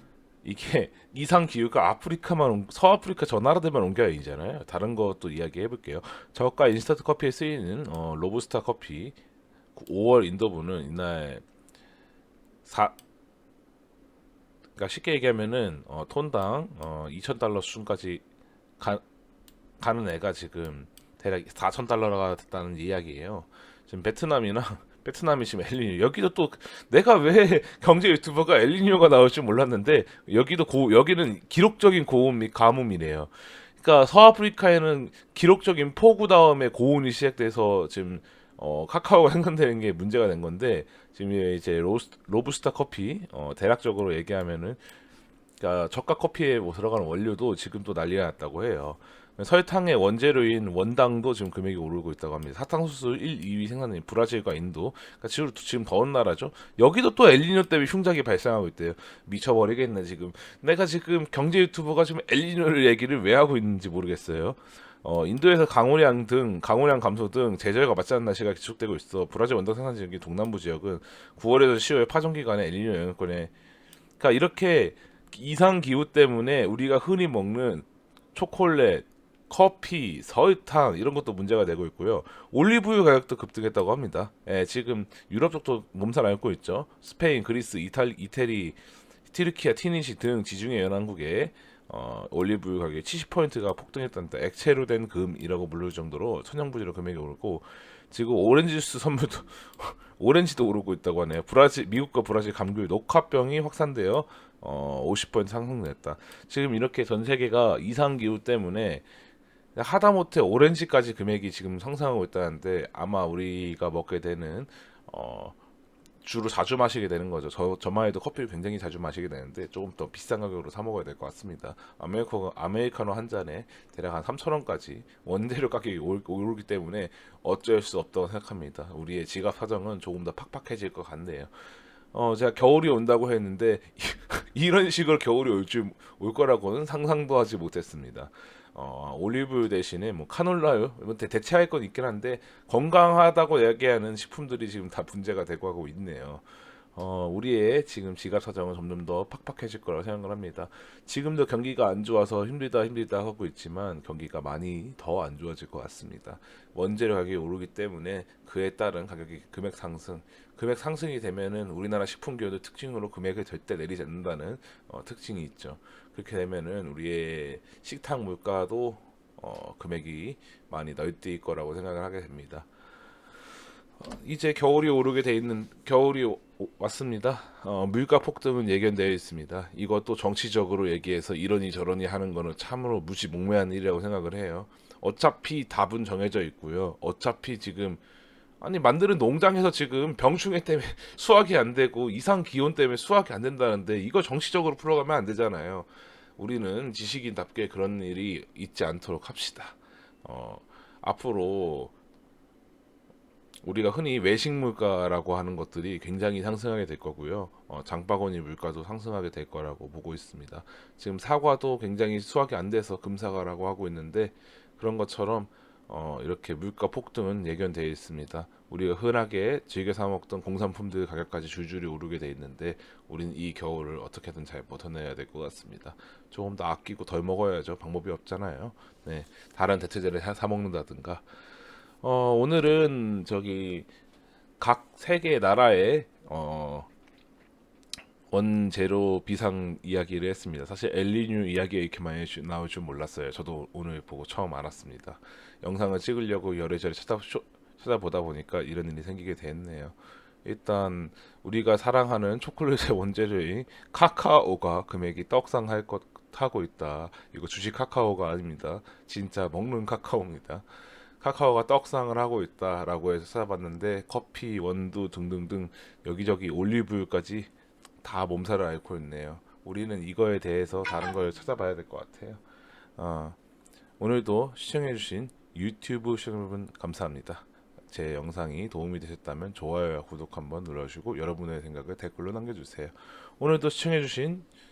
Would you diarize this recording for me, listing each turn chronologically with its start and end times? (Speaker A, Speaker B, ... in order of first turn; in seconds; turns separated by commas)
Speaker A: 0.4-9.2, Speaker A: 9.7-11.4, Speaker A: 12.6-12.9, Speaker A: 14.8-18.2, Speaker A: 19.8-44.8, Speaker A: 45.6-73.5, Speaker A: 74.2-88.8, Speaker A: 89.3-109.0, Speaker A: 109.7-115.6, Speaker A: 116.2-172.7, Speaker A: 174.0-188.0, Speaker A: 188.6-201.9, Speaker A: 203.6-231.2, Speaker A: 232.0-233.9, Speaker A: 234.6-236.9, Speaker A: 238.3-260.6, Speaker A: 261.2-267.5, Speaker A: 268.0-272.4, Speaker A: 273.0-273.4, Speaker A: 274.0-284.4